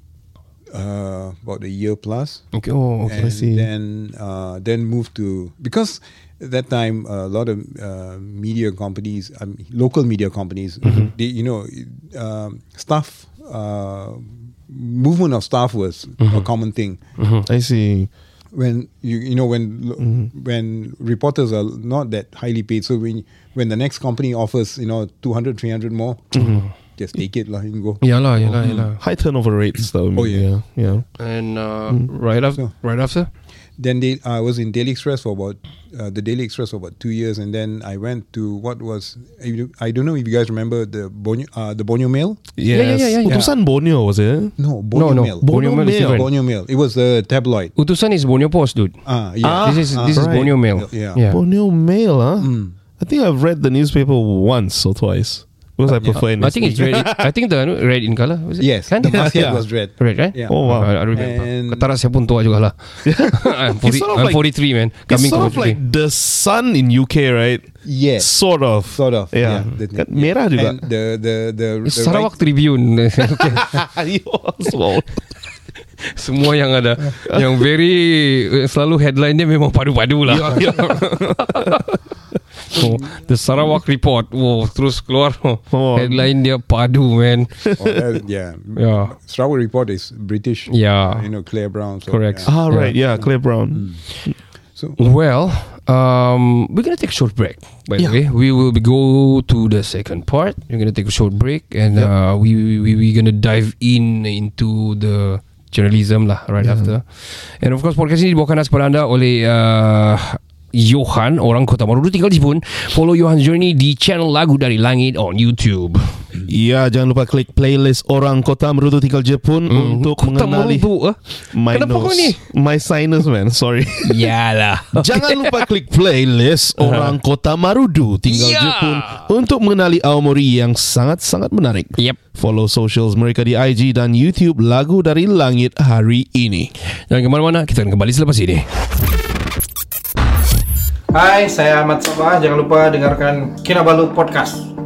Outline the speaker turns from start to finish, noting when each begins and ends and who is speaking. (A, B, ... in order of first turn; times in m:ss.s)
0:00.7-0:17.0 A
0:02.5-0:03.3 B
0:03.2-0:03.7 C
0:10.8-0:11.1 C
0:16.2-0:16.5 B
0:17.2-0:17.5 B
0:17.4-0:18.1 C
0:18.5-0:28.0 A
0:20.0-0:20.3 C
0:26.3-0:26.7 C
0:26.4-0:26.7 B
0:28.0-0:29.0 B
0:28.4-0:31.1 C
0:28.6-0:28.9 A
0:30.2-0:30.5 A
0:31.2-0:33.3 B
0:33.8-0:42.4 A
0:42.6-0:44.6 C
0:42.7-0:43.4 B
0:43.3-0:43.6 A
0:44.6-0:47.7 A
0:44.9-0:46.3 B
0:45.4-0:46.3 C
0:47.8-0:49.0 B
0:49.0-0:51.2 A
0:49.4-0:50.6 C
0:49.6-0:51.4 B
0:51.3-0:57.3 C
0:52.4-0:52.8 A
0:55.9-0:56.2 A
0:56.4-1:02.8 B
0:58.6-1:01.9 A
0:59.0-0:59.6 C
1:00.5-1:00.9 C
1:03.0-1:04.5 C
1:03.3-1:05.8 B
1:05.1-1:10.8 C
1:07.8-1:08.3 A
1:08.9-1:12.3 A
1:11.9-1:13.7 B
1:13.2-1:15.2 C
1:16.0-1:22.0 B
1:17.2-1:17.5 C
1:20.3-1:21.8 C
1:22.7-1:27.7 B
1:25.7-1:26.3 C
1:27.8-1:34.0 A
1:28.8-1:29.1 B
1:30.7-1:31.3 B
1:32.1-1:33.0 B
1:32.5-1:34.4 C
1:35.0-1:56.2 B
1:46.6-1:46.9 C
1:56.5-2:00.9 C
1:59.7-2:02.4 B
2:01.5-2:04.3 C
2:04.0-2:05.7 B
2:04.9-2:16.7 C
2:06.8-2:07.2 B
2:08.2-2:09.3 B
2:11.9-2:12.2 B
2:16.9-2:18.7 B
2:21.5-2:22.3 D
2:22.9-2:24.6 D